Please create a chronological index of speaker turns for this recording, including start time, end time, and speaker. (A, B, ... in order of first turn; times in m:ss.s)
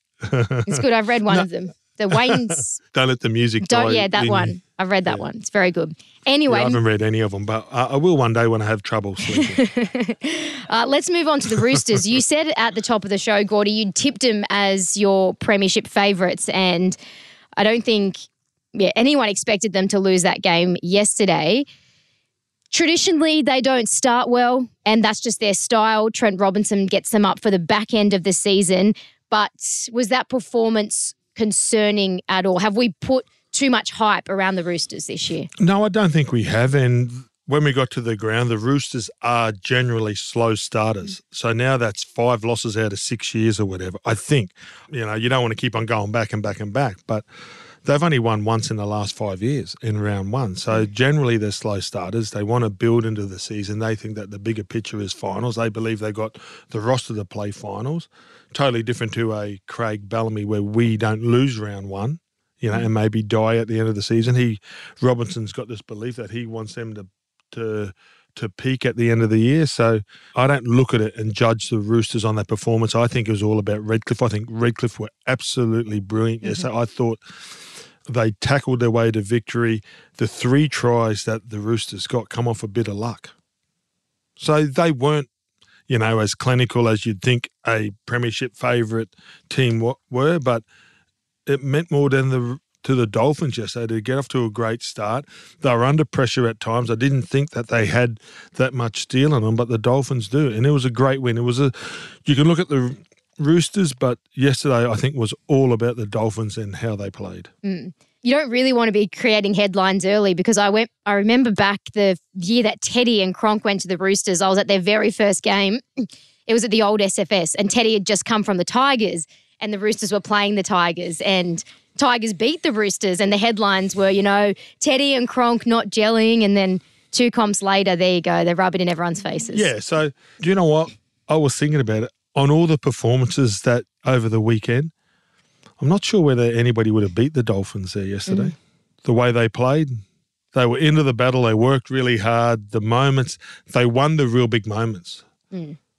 0:00.2-0:01.5 A
0:00.7-0:02.8 B
0:02.1-0:04.6 A
0:03.6-0:06.8 B
0:06.5-0:09.6 A
0:09.2-0:17.0 B
0:17.6-0:21.6 B
0:22.7-0:35.5 B
0:35.6-0:47.3 A
0:47.8-1:17.2 A
1:18.1-1:23.3 A
1:24.4-1:25.3 A
1:25.9-1:30.6 A
1:31.5-1:47.5 A
1:47.6-2:09.7 B
2:09.5-2:14.9 A
2:15.8-2:20.0 A
2:18.3-2:18.5 B
2:20.5-2:25.2 A
2:25.5-2:25.8 B